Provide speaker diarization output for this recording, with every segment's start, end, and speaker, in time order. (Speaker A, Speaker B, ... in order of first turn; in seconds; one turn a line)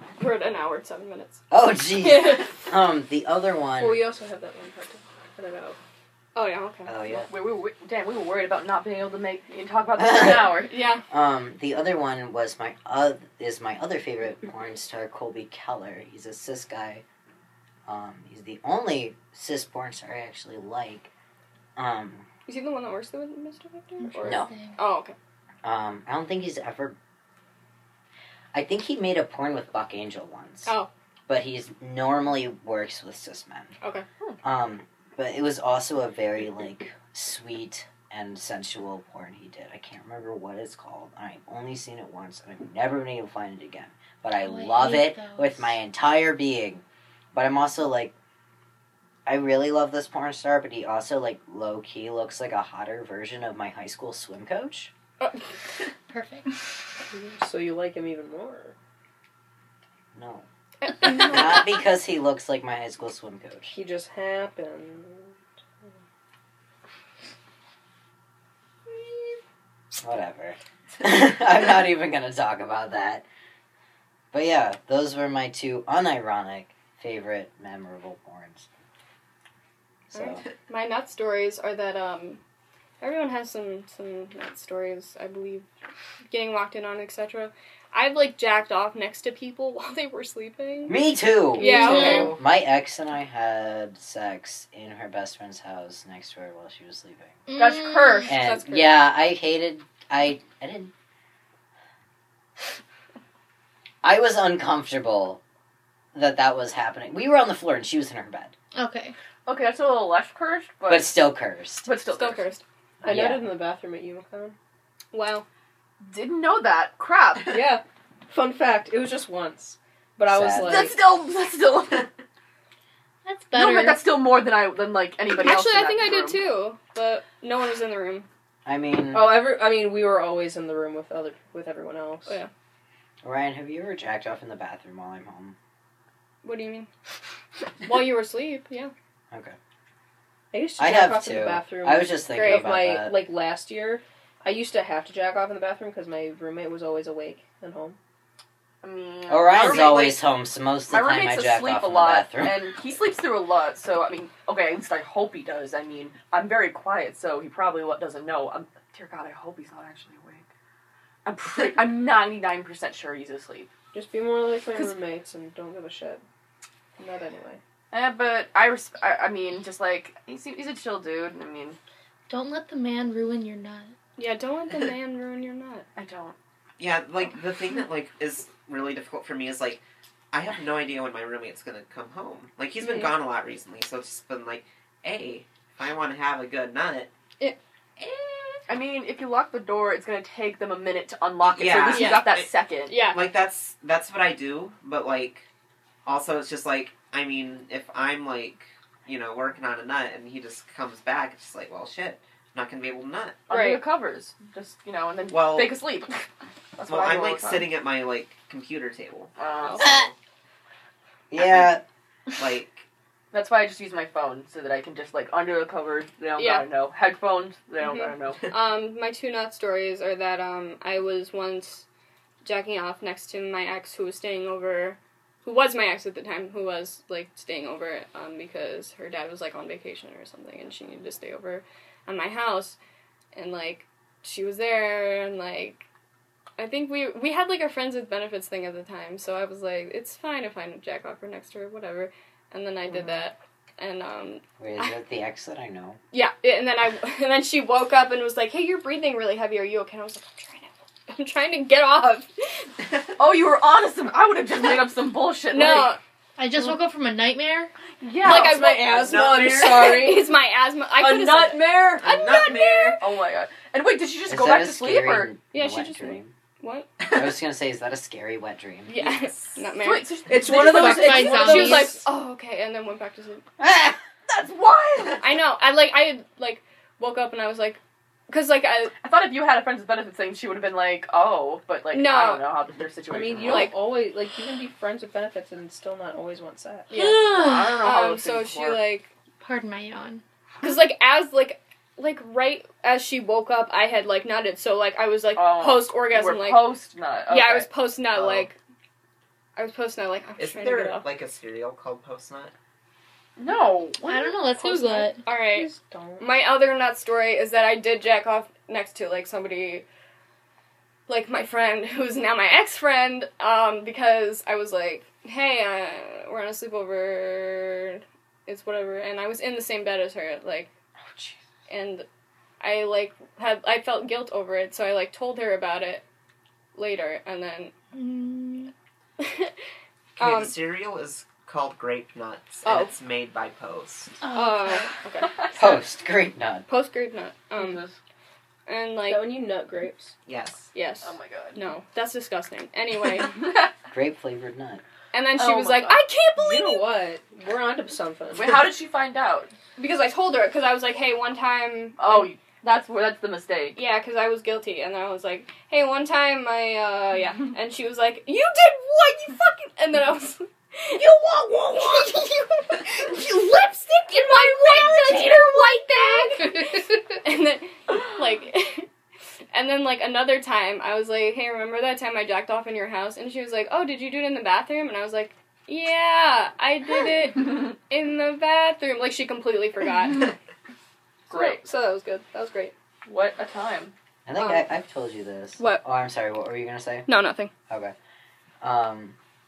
Speaker A: 0.2-1.4
Speaker B: 1.5-4.0
Speaker A: 2.0-2.6
Speaker C: 3.8-5.8
Speaker A: 6.3-6.9
Speaker B: 6.8-7.3
Speaker D: 7.3-10.8
Speaker B: 10.0-17.0
Speaker A: 10.7-11.0
Speaker B: 17.9-21.1
Speaker B: 21.8-22.2
Speaker A: 22.5-25.1
Speaker E: 24.1-24.7
Speaker B: 24.2-24.5
Speaker B: 25.6-26.9
Speaker B: 28.5-30.7
Speaker B: 31.3-33.7
Speaker A: 33.8-34.0
Speaker B: 34.4-46.8
Speaker E: 44.4-45.7
Speaker B: 47.3-48.1
Speaker B: 49.2-54.9
Speaker E: 56.1-56.5
Speaker C: 57.1-58.7
Speaker B: 60.1-60.5
Speaker A: 60.8-61.7
Speaker B: 61.0-63.7
Speaker C: 63.7-65.4
Speaker B: 70.0-73.2
Speaker B: 74.3-78.7
Speaker B: 80.1-80.4
Speaker A: 80.1-82.4
Speaker A: 83.0-85.7
Speaker A: 86.3-91.0
Speaker B: 90.9-97.4
Speaker A: 91.5-92.3
Speaker C: 91.6-92.3
Speaker E: 97.5-98.3
Speaker D: 97.5-98.4
Speaker B: 98.3-100.9
Speaker C: 98.5-98.9
Speaker B: 104.0-105.4
Speaker B: 106.1-108.5
Speaker E: 108.7-109.1
Speaker D: 109.5-111.1
Speaker B: 110.9-111.9
Speaker D: 111.8-112.5
Speaker A: 112.1-112.6
Speaker C: 113.0-114.5
Speaker B: 113.0-113.5
Speaker A: 115.1-115.5
Speaker D: 116.0-117.6
Speaker C: 117.5-120.9
Speaker B: 120.3-120.8
Speaker D: 120.6-122.1
Speaker E: 123.2-124.0
Speaker D: 123.5-126.4
Speaker A: 125.4-128.3
Speaker B: 128.6-129.4
Speaker C: 129.1-132.4
Speaker B: 133.2-135.6
Speaker A: 136.4-136.9
Speaker A: 137.8-138.9
Speaker B: 139.3-139.6
Speaker C: 140.5-147.9
Speaker B: 140.8-143.2
Speaker A: 142.3-142.7
Speaker D: 148.8-150.2
Speaker B: 149.3-152.6
Speaker D: 150.9-160.5
Speaker D: 161.2-163.7
Speaker C: 163.9-166.2
Speaker C: 167.0-167.6
Speaker D: 167.9-171.8
Speaker E: 172.3-173.9
Speaker A: 174.2-175.8
Speaker D: 175.9-176.4
Speaker F: 176.8-187.1
Speaker D: 182.8-183.1
Speaker F: 188.0-188.6
Speaker D: 188.7-193.0
Speaker F: 191.4-192.5
Speaker A: 191.9-192.3
Speaker A: 192.9-193.2
Speaker F: 193.0-195.4
Speaker F: 196.0-203.4
Speaker D: 203.5-207.7
Speaker A: 203.5-203.8
Speaker F: 205.3-205.8
Speaker F: 206.8-210.1
Speaker D: 209.4-209.9
Speaker B: 211.3-211.8
Speaker F: 211.4-211.8
Speaker F: 212.4-212.8
Speaker D: 213.3-218.4
Speaker A: 216.4-216.7
Speaker A: 217.8-221.8
Speaker A: 222.4-232.8
Speaker A: 233.3-235.8
Speaker A: 236.6-244.9
Speaker B: 244.6-246.0
Speaker A: 246.1-252.7
Speaker D: 253.2-255.9
Speaker A: 255.5-256.0
Speaker E: 256.4-257.7
Speaker D: 258.0-258.6
Speaker A: 258.2-263.0
Speaker C: 258.2-260.3
Speaker F: 258.3-260.1
Speaker C: 261.0-262.2
Speaker F: 262.0-263.0
Speaker D: 263.0-265.3
Speaker B: 264.3-266.3
Speaker A: 265.5-266.9
Speaker B: 267.1-269.1
Speaker A: 268.9-270.1
Speaker D: 269.0-271.9
Speaker C: 270.3-272.0
Speaker E: 270.4-272.0
Speaker A: 271.4-273.4
Speaker B: 273.6-274.0
Speaker D: 274.3-275.3
Speaker A: 275.2-278.9
Speaker D: 279.0-283.7
Speaker A: 281.9-282.4
Speaker C: 283.1-286.9
Speaker A: 283.4-283.7
Speaker A: 286.9-287.3
Speaker D: 286.9-288.8
Speaker E: 287.1-287.8
Speaker A: 287.8-289.1
Speaker E: 289.4-290.2
Speaker A: 290.6-296.8
Speaker D: 295.4-297.7
Speaker A: 297.3-298.6
Speaker F: 298.1-298.4
Speaker A: 299.6-301.1
Speaker F: 300.4-302.5
Speaker D: 303.4-304.4
Speaker E: 304.0-305.2
Speaker A: 304.6-309.8
Speaker C: 305.5-306.3
Speaker A: 311.1-320.7
Speaker A: 321.7-322.1
Speaker A: 322.6-326.0
Speaker A: 326.7-327.7
Speaker E: 327.9-328.7
Speaker A: 329.2-329.5
Speaker F: 330.2-334.2
Speaker A: 330.2-330.5
Speaker E: 334.2-334.9
Speaker A: 334.3-335.8
Speaker B: 335.5-336.7
Speaker A: 336.7-337.9
Speaker D: 337.6-337.9
Speaker A: 338.6-339.3
Speaker C: 339.1-340.1
Speaker F: 340.2-340.7
Speaker A: 340.7-343.5
Speaker D: 341.0-341.6
Speaker B: 343.9-344.8
Speaker A: 345.1-346.9
Speaker D: 345.4-346.0
Speaker C: 346.4-348.7
Speaker D: 348.3-349.5
Speaker A: 349.8-352.3
Speaker D: 352.0-353.8
Speaker A: 353.8-368.9
Speaker D: 361.0-362.4
Speaker D: 363.0-366.5
Speaker A: 369.5-380.3
Speaker A: 381.3-382.7
Speaker D: 381.3-381.6
Speaker D: 383.1-383.9
Speaker B: 384.2-387.1
Speaker A: 384.4-384.7
Speaker A: 385.6-385.8
Speaker A: 387.1-387.5
Speaker B: 387.7-387.9
Speaker B: 388.6-389.1